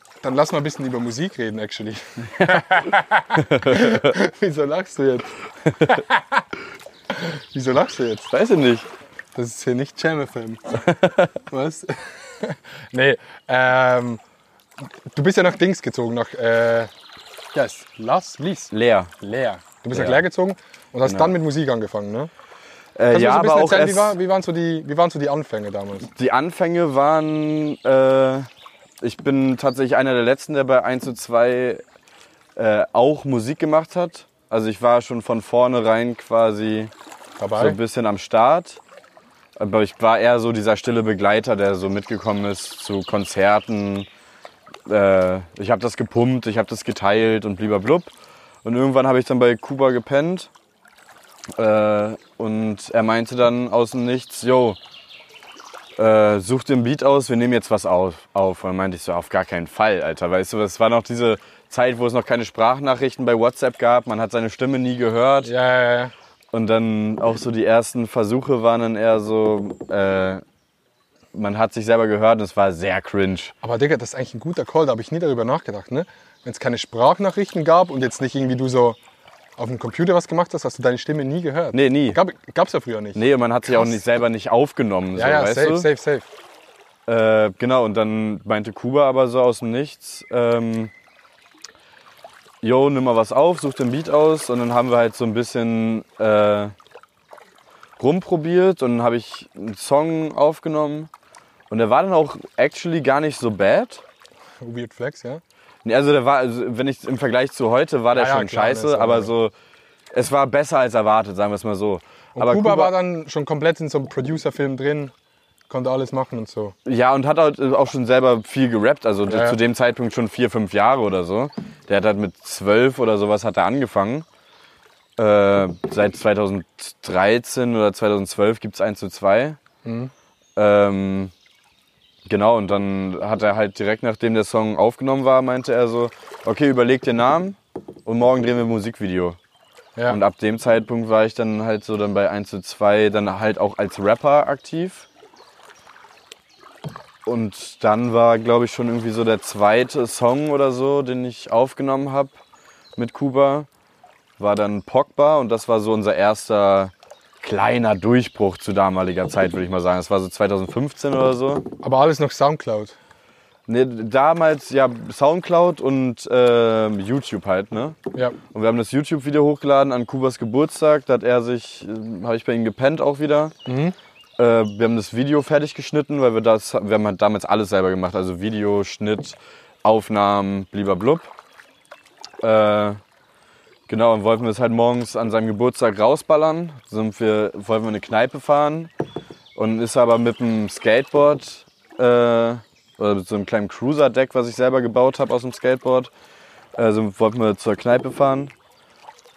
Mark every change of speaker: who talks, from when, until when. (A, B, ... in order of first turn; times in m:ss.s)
0:00.2-0:06.4 A
0:03.4-0:04.1 B
0:07.1-0:08.3 A
0:08.3-0:08.9 B
0:09.4-0:10.8 A
0:11.0-0:11.3 B
0:11.5-0:14.2 A
0:15.1-0:16.9 A
0:17.5-0:22.3 A
0:18.7-0:19.1 B
0:19.9-0:20.2 B
0:21.0-0:21.3 B
0:23.0-0:24.2 B
0:23.1-0:26.1 A
0:26.1-0:28.5 B
0:29.0-0:31.8 B
0:32.6-0:36.9 B
0:37.4-0:37.8 A
0:37.6-0:38.8 B
0:39.6-0:44.1 B
0:44.9-0:48.1 B
0:48.6-0:50.5 B
0:51.6-0:54.8 B
0:56.0-1:05.5 B
1:05.4-1:06.1 A
1:06.5-1:10.4 B
1:11.3-1:13.5 B
1:13.6-1:19.0 A
1:19.6-1:24.0 A
1:21.7-1:22.2 B
1:23.2-1:25.9 B
1:25.2-1:26.3 A
1:27.1-1:30.9 B
1:32.6-1:36.7 B
1:38.0-1:41.1 B
1:41.7-1:44.0 B
1:44.6-1:45.4 A
1:45.8-1:49.5 B
1:48.1-1:49.3 A
1:50.1-1:52.9 B
1:52.4-1:55.1 A
1:55.7-1:56.8 A
1:56.8-2:04.3 B
1:59.3-1:59.6 A
2:05.2-2:09.6 B
2:09.8-2:10.1 A
2:10.6-2:11.3 B
2:12.3-2:19.4 B
2:20.1-2:25.1 B
2:27.3-2:32.4 B
2:33.0-2:33.7 B
2:34.4-2:41.7 B
2:41.8-2:43.0 A
2:43.7-2:48.0 B
2:48.5-2:53.5 B
2:53.7-2:54.0 A
2:54.4-3:01.3 B
3:02.4-3:03.0 B
3:03.9-3:08.9 B
3:09.6-3:16.1 B
3:16.8-3:18.5 B